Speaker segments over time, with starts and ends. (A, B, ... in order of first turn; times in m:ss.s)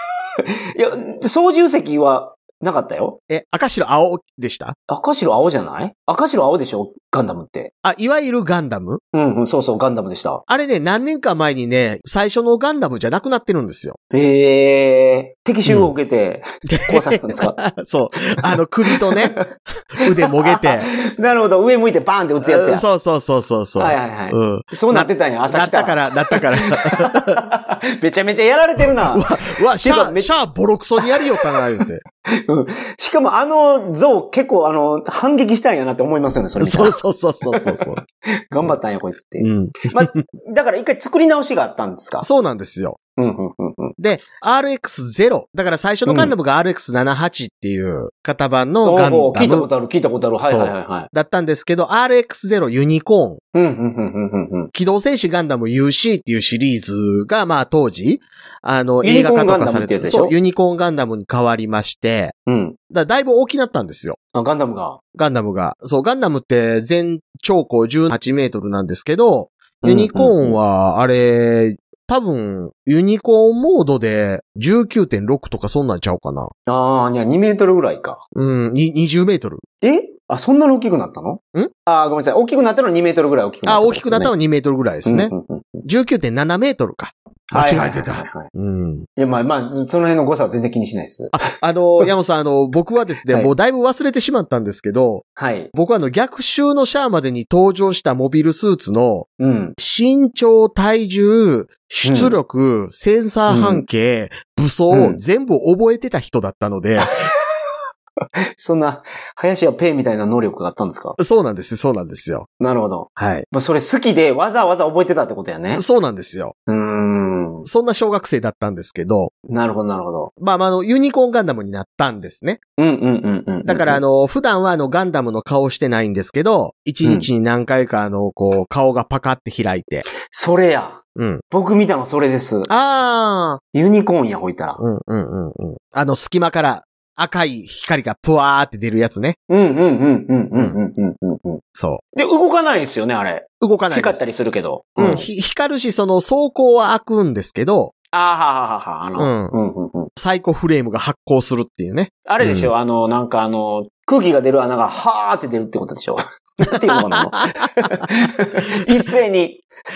0:00.4-0:03.2 A
0:03.3-0:04.7 B
0:04.9-0:07.7 A
0:07.8-0:09.0 B
0:09.1-0:10.4 A
0:10.5-0:14.0 B
0:14.1-0:17.6 A
0:15.6-0:15.9 B
0:16.7-0:19.4 B
0:18.9-0:19.4 A
0:20.0-0:20.9 B
0:20.2-0:22.8 A
0:22.4-0:27.4 B
0:23.8-0:30.3 A
0:28.8-0:32.0 B
0:31.0-0:42.3 A
0:36.6-0:38.0 B
0:39.4-0:40.2 B
0:42.2-0:43.0 B
0:43.2-0:44.0 A
0:44.0-0:49.7 B
0:46.0-0:46.3 A
0:48.8-0:51.1 A
0:50.4-0:53.4 B
0:53.5-0:54.7 A
0:54.7-1:02.3 B
0:59.0-1:00.3 A
1:02.5-1:02.8 A
1:02.9-1:04.2 B
1:04.3-1:05.0 A
1:05.1-1:16.5 B
1:09.8-1:10.6 A
1:16.7-1:18.2 A
1:18.3-1:19.6 B
1:19.8-1:24.3 A
1:23.6-1:25.3 B
1:25.0-1:25.8 A
1:25.8-1:29.1 B
1:27.5-1:28.5 A
1:29.2-1:31.4 A
1:31.3-1:39.3 B
1:35.4-1:35.7 A
1:39.4-1:39.8 A
1:39.8-1:47.2 B
1:42.0-1:42.4 A
1:43.5-1:43.8 A
1:44.9-1:45.2 A
1:48.6-1:51.2 A
1:51.2-1:52.5 B
1:52.6-1:55.8 A
1:53.2-1:53.4 B
1:55.7-1:56.5 B
1:56.7-1:57.7 A
1:57.6-1:59.3 B
1:59.5-2:00.3 A
2:00.4-2:02.6 B
2:02.8-2:04.0 A
2:03.6-2:10.0 B
2:07.0-2:07.3 A
2:10.2-2:12.7 A
2:11.2-2:11.4 B
2:12.7-2:13.6 B
2:13.7-2:14.8 A
2:14.8-2:19.4 B
2:19.5-2:21.6 A
2:21.7-2:22.0 B
2:22.1-2:25.2 A
2:23.6-2:24.3 B
2:25.0-2:27.9 B
2:28.1-2:30.1 A
2:29.2-2:29.5 B
2:30.2-2:32.7 B
2:32.2-2:39.6 A
2:36.9-2:37.2 B